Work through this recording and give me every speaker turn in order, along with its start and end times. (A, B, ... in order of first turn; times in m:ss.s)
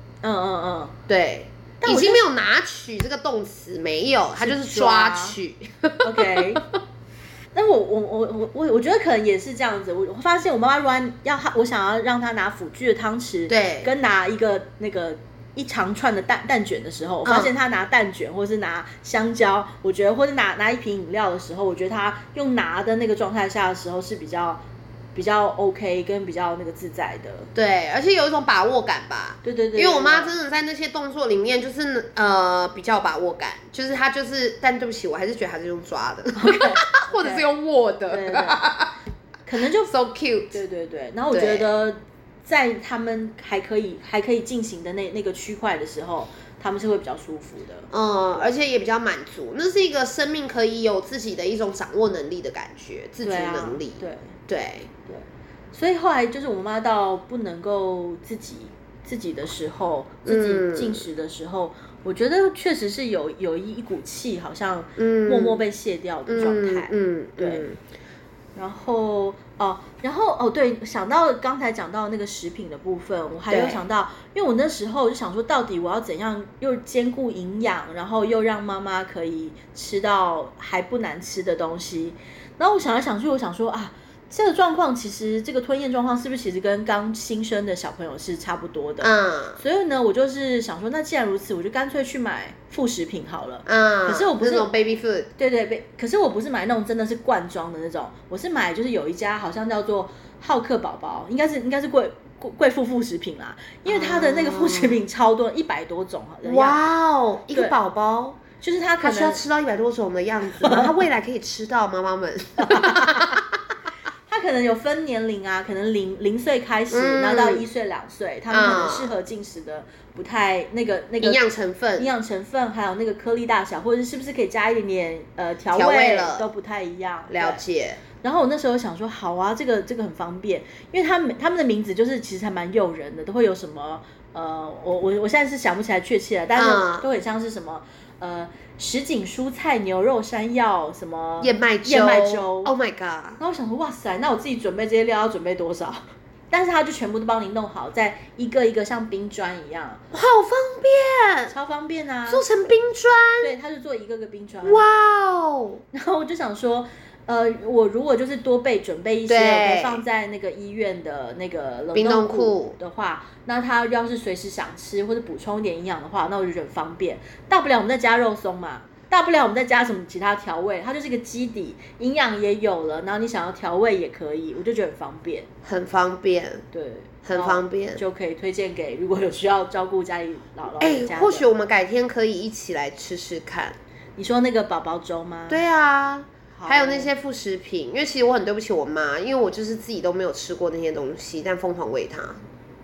0:00.2-0:00.9 A
0:01.1-0:06.6 B
0:01.8-0:02.2 A
0:04.4-0:05.4 A
0:06.0-0:06.6 A
0:07.5-0:24.6 A
0:13.5-0:13.9 B
0:17.2-0:17.5 B
0:25.1-0:27.5 A
0:27.5-0:38.9 B
0:29.4-0:30.3 A
0:36.4-0:37.5 A
0:38.1-0:38.6 A
0:39.4-0:39.9 A
0:39.8-0:40.6 B
0:40.5-0:48.5 A
0:41.3-0:41.7 B
0:47.9-0:54.9 B
0:53.2-0:54.3 A
0:55.1-1:07.6 A
1:00.2-1:01.1 B
1:05.0-1:05.6 B
1:06.3-1:07.8 B
1:08.6-1:34.7 A
1:13.5-1:13.8 B
1:29.0-1:29.6 B
1:33.6-1:35.3 B
1:35.4-1:46.8 A
1:43.8-1:45.0 B
1:46.4-1:48.4 B
1:47.5-1:47.8 A
1:48.6-1:49.4 A
1:49.0-1:53.4 B
1:50.5-1:50.9 A
1:52.6-1:53.4 A
1:54.3-2:01.4 A
1:56.9-1:57.6 B
1:58.5-1:59.1 B
2:01.2-2:02.1 B
2:02.0-2:07.6 A
2:05.7-2:06.4 B
2:07.3-2:08.0 B
2:08.2-2:22.7 A
2:16.5-2:17.0 B
2:21.4-2:23.4 B
2:23.4-2:30.0 A
2:30.1-2:31.5 B
2:31.5-2:32.4 A
2:32.3-2:33.5 B
2:33.4-2:34.8 A
2:34.6-2:35.8 B
2:35.9-2:55.5 A
2:39.3-2:40.0 B
2:41.9-2:42.7 B
2:55.6-2:56.6 B
2:56.7-3:01.5 A
2:57.2-2:58.0 B
3:00.8-3:03.8 B
3:04.2-3:05.6 A
3:05.5-3:12.4 B
3:06.5-3:07.1 A